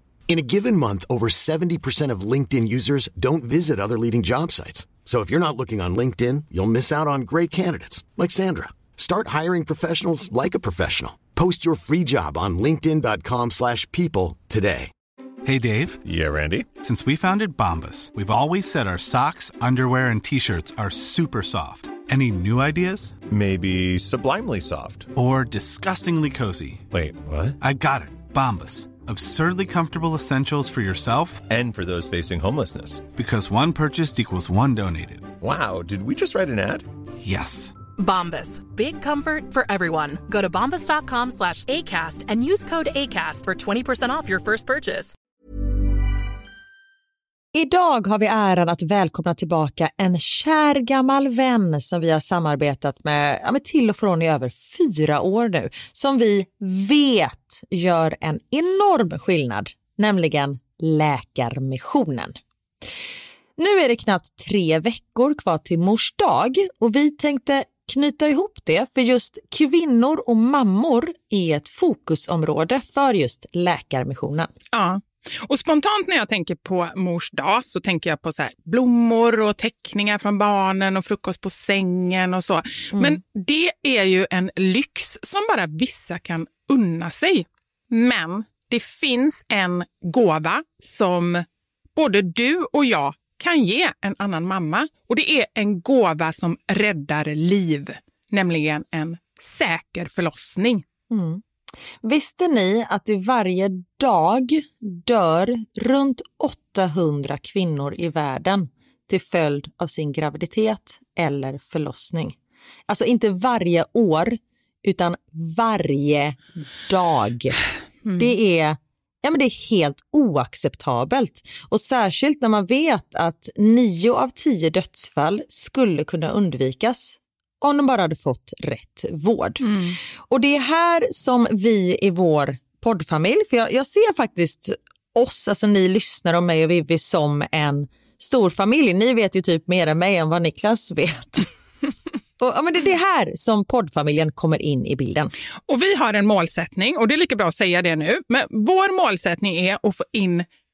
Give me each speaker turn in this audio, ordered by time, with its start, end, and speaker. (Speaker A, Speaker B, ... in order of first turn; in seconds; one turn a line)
Speaker A: 0.3-14.9
Speaker B: 15.4-16.0
Speaker C: 16.0-16.7
Speaker B: 16.8-23.2
Speaker C: 23.3-25.1
Speaker B: 25.1-26.8
Speaker C: 26.9-27.6
Speaker B: 27.6-31.5
Speaker C: 31.5-33.1
Speaker B: 33.1-35.4
Speaker C: 35.4-36.9
Speaker B: 37.2-37.7
Speaker D: 38.0-45.1
Speaker E: 47.5-62.4
Speaker E: 63.6-74.5
Speaker F: 74.7-91.4
Speaker F: 92.0-100.8
Speaker E: 101.1-101.4
Speaker E: 102.0-112.3
Speaker E: 112.9-117.6
Speaker F: 118.0-118.3
Speaker E: 118.1-141.5
Speaker F: 129.6-130.0
Speaker E: 142.4-145.3
Speaker F: 145.7-150.4